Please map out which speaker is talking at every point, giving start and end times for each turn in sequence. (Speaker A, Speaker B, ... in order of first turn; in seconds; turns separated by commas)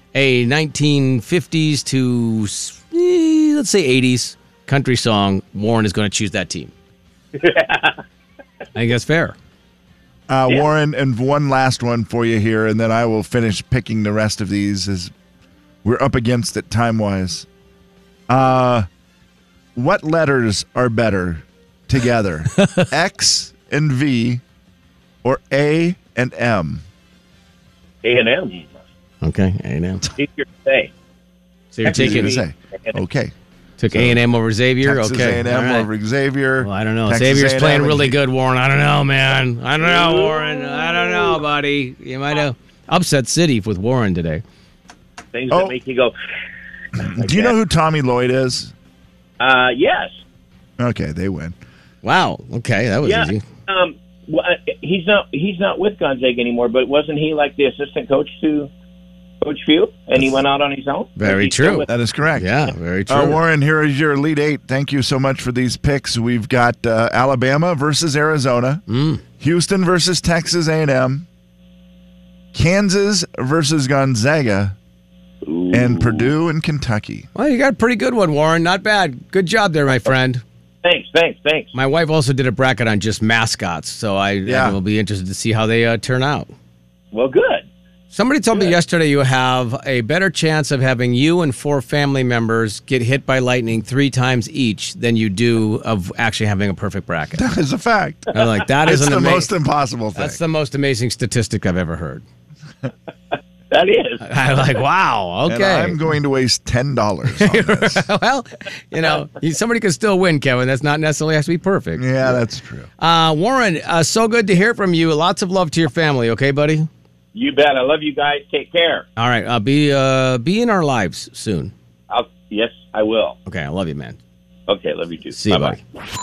Speaker A: 0.1-6.7, Speaker B: 7.3-8.0, Speaker A: 8.7-9.3, Speaker C: 10.3-15.1, Speaker C: 15.8-17.4, Speaker C: 18.3-18.9, Speaker C: 19.8-24.4, Speaker A: 22.6-22.9, Speaker C: 25.2-26.8, Speaker B: 28.0-28.7, Speaker A: 29.2-30.0, Speaker B: 30.1-30.9, Speaker A: 31.7-32.4, Speaker B: 31.8-32.9, Speaker C: 31.9-33.3, Speaker A: 33.8-35.9, Speaker C: 33.9-34.2, Speaker C: 34.8-38.2, Speaker A: 36.6-44.4, Speaker B: 39.8-41.4, Speaker B: 45.3-46.1, Speaker C: 47.0-48.7, Speaker B: 47.0-47.5, Speaker B: 49.4-50.2, Speaker C: 50.8-51.5, Speaker A: 52.0-53.4, Speaker B: 53.0-58.7, Speaker B: 59.4-61.9, Speaker A: 61.2-61.9, Speaker C: 61.9-62.5, Speaker A: 62.4-63.4, Speaker C: 63.1-68.8, Speaker A: 68.9-69.2, Speaker C: 69.4-71.2, Speaker C: 72.5-74.8, Speaker B: 75.4-76.3, Speaker C: 75.7-77.3, Speaker A: 77.3-80.4, Speaker B: 80.8-81.7, Speaker A: 81.7-86.5, Speaker C: 84.5-84.8, Speaker B: 87.1-87.7, Speaker A: 88.1-97.4, Speaker C: 97.3-98.3, Speaker A: 98.3-99.5, Speaker C: 98.8-100.4, Speaker A: 100.2-102.2, Speaker B: 103.7-104.2, Speaker A: 104.2-106.1, Speaker C: 105.5-108.0, Speaker A: 107.3-112.4, Speaker C: 112.0-112.9, Speaker A: 113.0-116.9, Speaker B: 117.3-119.0, Speaker A: 119.2-121.7, Speaker B: 122.1-123.4, Speaker A: 123.5-124.2, Speaker B: 124.7-125.8, Speaker A: 125.3-125.8